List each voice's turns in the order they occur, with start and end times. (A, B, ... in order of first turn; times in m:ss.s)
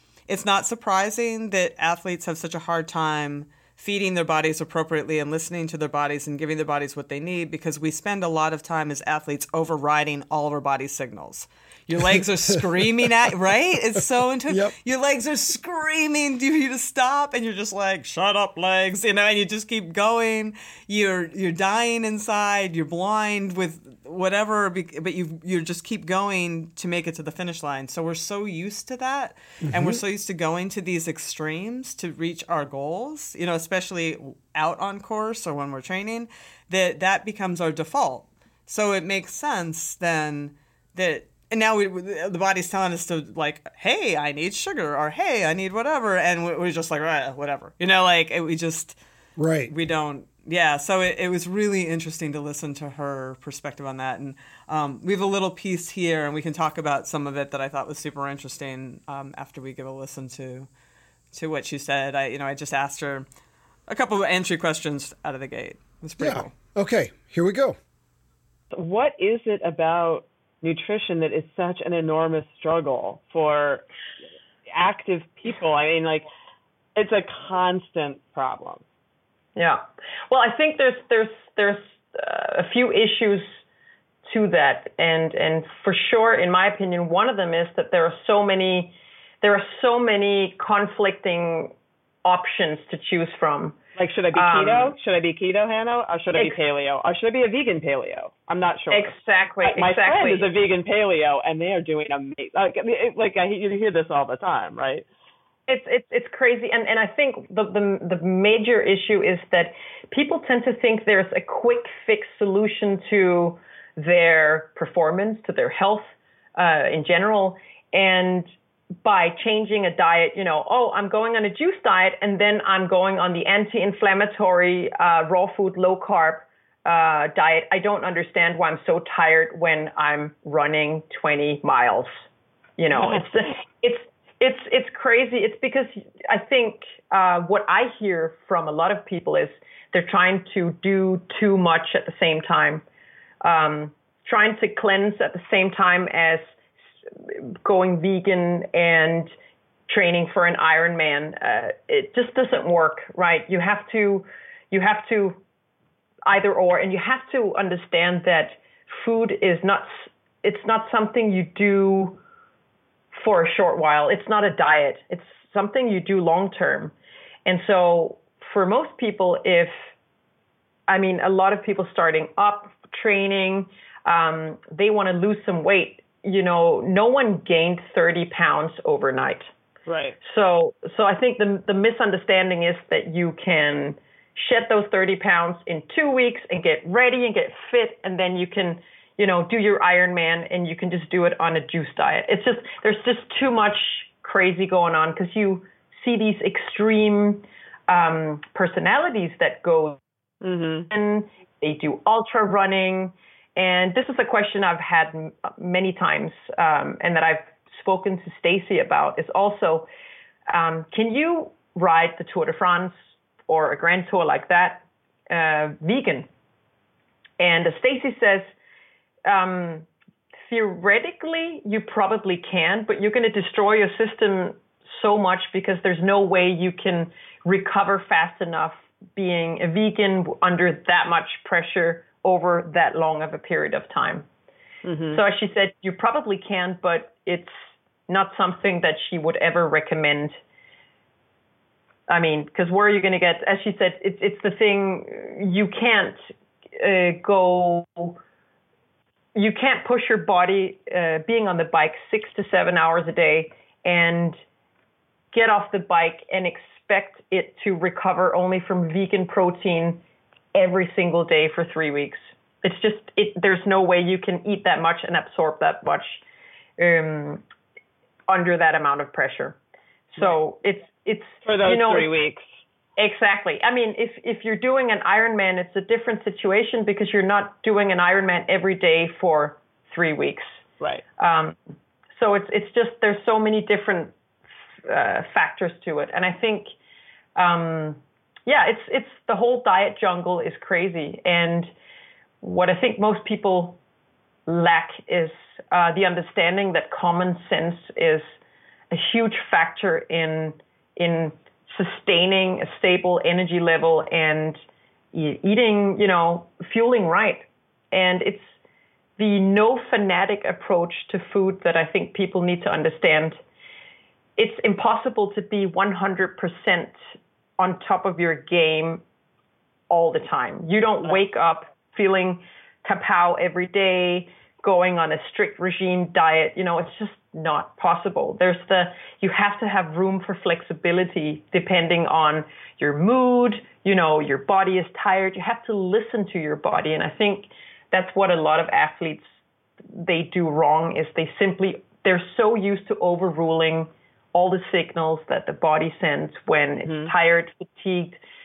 0:00.3-0:49.0 A
0:12.5-0:13.2 B
0:14.5-0:14.7 B
0:29.6-0:30.0 B
0:49.4-0:49.7 B
0:49.7-1:00.7 A
1:01.3-1:03.3 A
1:03.9-1:06.5 A
1:06.2-1:07.8 B
1:08.7-1:13.8 C
1:14.7-1:16.3 C
1:17.0-1:18.8 C
1:19.6-1:23.5 D
1:24.3-1:33.8 D
1:34.0-1:45.1 C
1:34.3-1:35.0 D
1:36.4-1:36.6 D
1:38.9-1:40.5 D
1:45.7-1:58.5 D
1:59.0-2:12.1 D
2:12.8-2:22.8 D
2:12.9-2:13.3 C
2:23.4-2:26.4 D
2:27.2-2:29.3 D
2:29.9-2:35.4 D
2:36.3-2:42.2 D
2:43.2-2:46.9 D
2:47.4-2:49.7 D
2:50.9-2:59.5 D
2:59.9-3:00.2 C
3:00.2-3:20.0 D
3:20.4-3:20.9 C
3:20.9-3:29.9 D
3:30.5-3:32.9 D
3:33.5-3:36.3 D
3:37.4-3:38.5 D
3:39.3-3:39.9 D
3:40.5-3:54.3 D
3:54.8-3:55.2 C
3:55.1-3:57.5 D
3:58.1-4:00.4 D
4:02.1-4:06.2 D
4:06.8-4:08.2 D
4:09.4-4:14.4 D
4:15.3-4:20.0 D
4:20.6-4:26.2 D
4:26.8-4:27.4 D
4:28.3-4:29.6 D
4:30.1-4:32.1 D
4:31.4-4:32.4 C
4:33.0-4:40.6 D
4:41.2-4:41.6 D
4:42.2-4:44.1 D
4:44.9-4:46.7 D
4:47.4-4:51.7 D
4:52.4-4:53.8 D
4:54.5-4:58.3 D
4:58.9-5:04.6 D
5:05.1-5:08.5 D
5:09.2-5:13.4 D
5:14.4-5:17.0 D
5:17.6-5:19.0 D
5:19.9-5:39.2 D
5:39.9-5:48.2 D
5:46.9-5:47.1 C